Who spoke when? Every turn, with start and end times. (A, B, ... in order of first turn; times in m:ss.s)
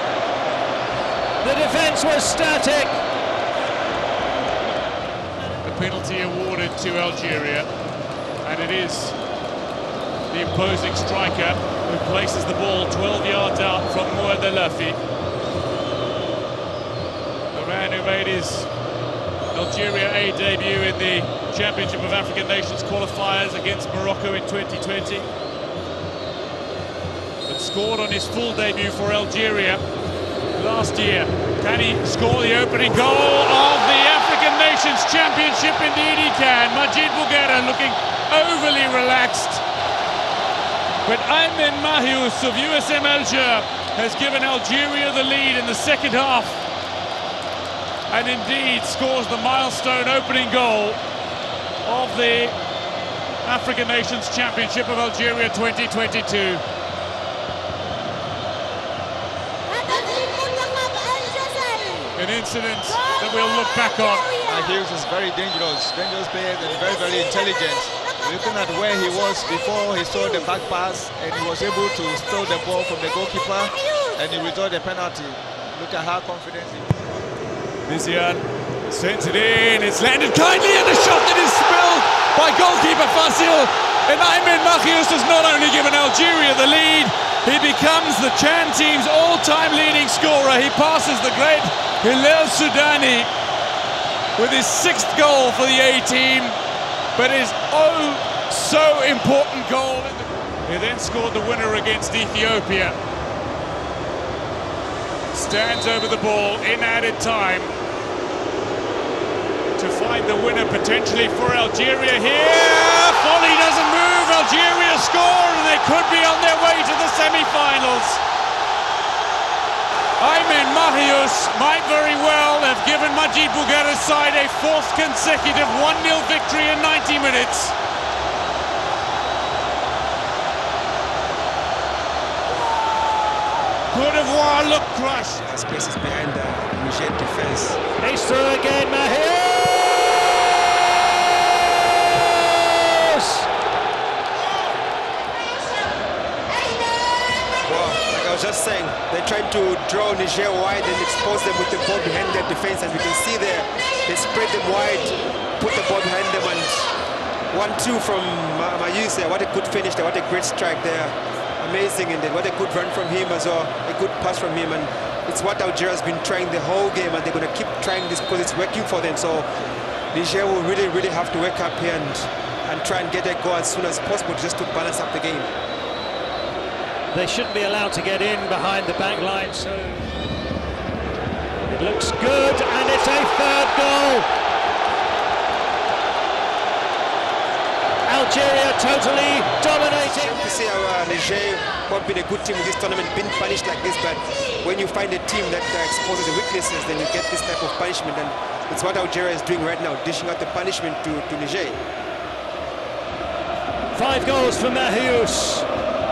0:01.4-0:03.0 A
0:05.6-0:07.7 B
0:08.4-0:09.2 B
0:10.3-0:15.0 B
0:17.5-0:18.7 B
0:19.5-0:25.3 B
0:27.5-0:29.8 B
0:30.6-0:39.6 B
0:41.0-0:46.6 B
0:48.1-0:51.0 B
0:51.8-0:52.6 B
0:53.4-0:56.6 B
1:02.2-1:04.3 B
1:04.4-1:17.0 C
1:17.9-1:33.3 B
1:34.4-1:36.6 B
1:37.2-1:43.0 B
1:45.3-1:47.7 B
1:49.8-1:58.2 B
2:00.2-2:07.8 B
2:13.9-2:15.4 B
2:15.4-2:17.8 D
2:18.0-2:23.4 A
2:27.7-2:36.9 D
2:37.5-2:49.5 D
2:50.1-2:55.5 D
2:57.1-3:00.1 A
3:01.7-3:04.3 A
3:08.1-3:10.6 A
3:10.0-3:21.8 D
3:23.9-3:25.7 A